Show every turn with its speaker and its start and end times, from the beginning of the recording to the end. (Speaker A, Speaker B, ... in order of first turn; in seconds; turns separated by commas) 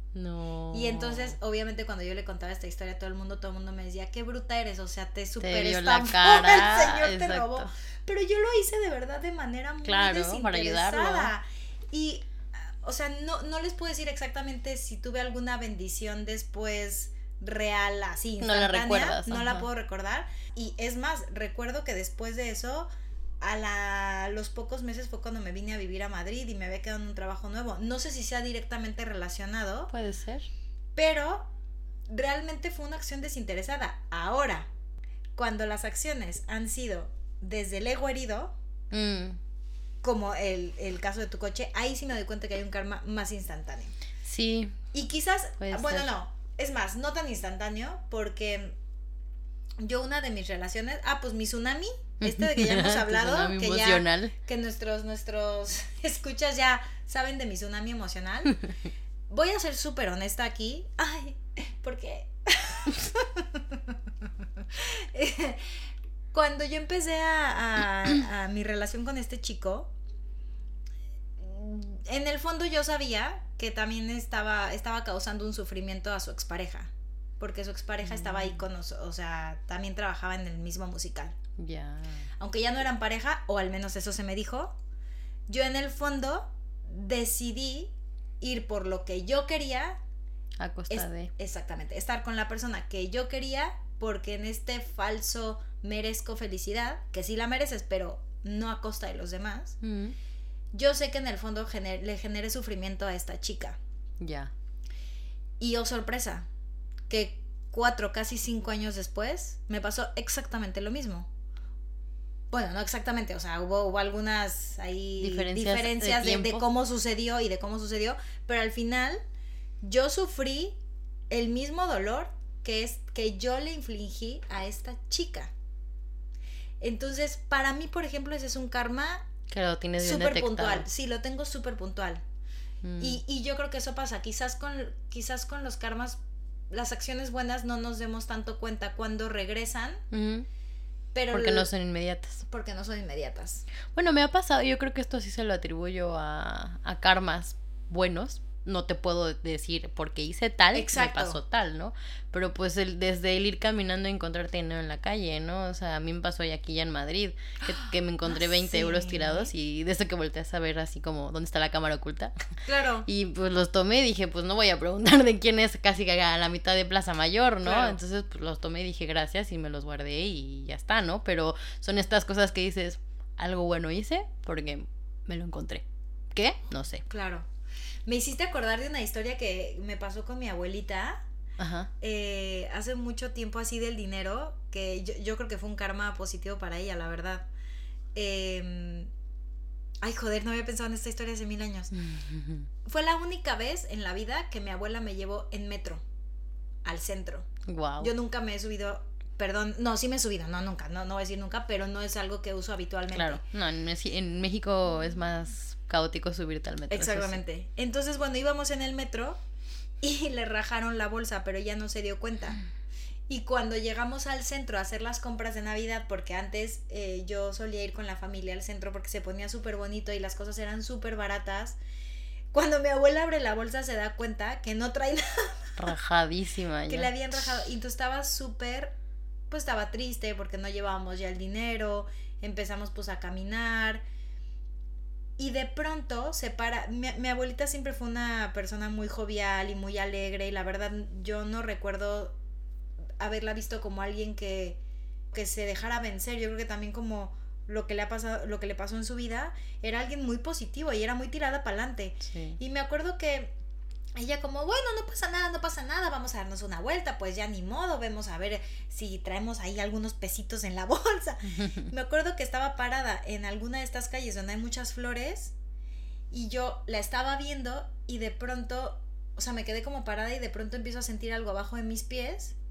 Speaker A: 0.1-1.4, Speaker B: 0.7-12.2, Speaker A: 5.4-7.7, Speaker A: 9.8-11.3, Speaker B: 12.8-22.9, Speaker A: 18.4-19.7, Speaker B: 23.4-29.9, Speaker A: 29.9-30.5, Speaker B: 30.9-31.5, Speaker B: 32.1-34.7, Speaker B: 35.4-38.5, Speaker A: 38.9-39.4, Speaker B: 40.0-43.9, Speaker A: 44.2-44.8, Speaker B: 44.9-48.8, Speaker A: 45.6-46.1, Speaker B: 49.8-58.6, Speaker A: 52.2-54.3, Speaker B: 59.3-63.8, Speaker B: 64.7-65.6, Speaker B: 66.3-69.9, Speaker B: 71.4-81.3, Speaker A: 78.0-78.6, Speaker A: 81.6-82.2, Speaker B: 82.4-84.7, Speaker B: 85.5-90.0, Speaker A: 90.6-91.3, Speaker B: 90.9-99.8, Speaker A: 99.8-100.1, Speaker B: 100.7-103.8, Speaker A: 104.2-104.5, Speaker B: 105.6-106.5, Speaker B: 107.1-111.3, Speaker B: 112.5-119.2, Speaker A: 115.2-116.6, Speaker B: 119.8-120.8, Speaker B: 121.3-125.5, Speaker B: 126.8-129.3, Speaker A: 129.5-130.9, Speaker B: 130.0-132.2, Speaker A: 132.8-133.2, Speaker B: 133.0-136.2, Speaker B: 136.7-140.0, Speaker A: 140.1-140.5, Speaker B: 141.1-141.7, Speaker A: 141.3-142.4, Speaker B: 142.4-143.6, Speaker A: 143.9-162.3, Speaker B: 150.7-151.4, Speaker B: 157.7-159.5, Speaker B: 162.7-163.1, Speaker A: 163.1-177.0, Speaker B: 167.6-168.0, Speaker B: 177.1-177.5, Speaker B: 178.1-181.2, Speaker A: 181.6-181.9, Speaker B: 182.0-187.5, Speaker B: 188.1-189.1, Speaker B: 190.0-191.9, Speaker A: 191.9-192.7, Speaker B: 192.8-196.0, Speaker B: 196.8-197.5, Speaker A: 197.7-198.1, Speaker B: 198.0-203.4, Speaker A: 203.1-207.4, Speaker B: 206.9-209.4, Speaker B: 210.0-212.6, Speaker B: 213.3-221.8, Speaker B: 222.5-225.8, Speaker A: 225.8-227.1, Speaker B: 226.9-228.9, Speaker B: 229.5-234.0, Speaker B: 235.4-242.3, Speaker B: 243.2-244.8, Speaker B: 245.3-253.5, Speaker A: 252.2-252.6, Speaker B: 254.2-265.5, Speaker A: 261.5-261.9, Speaker B: 266.3-272.6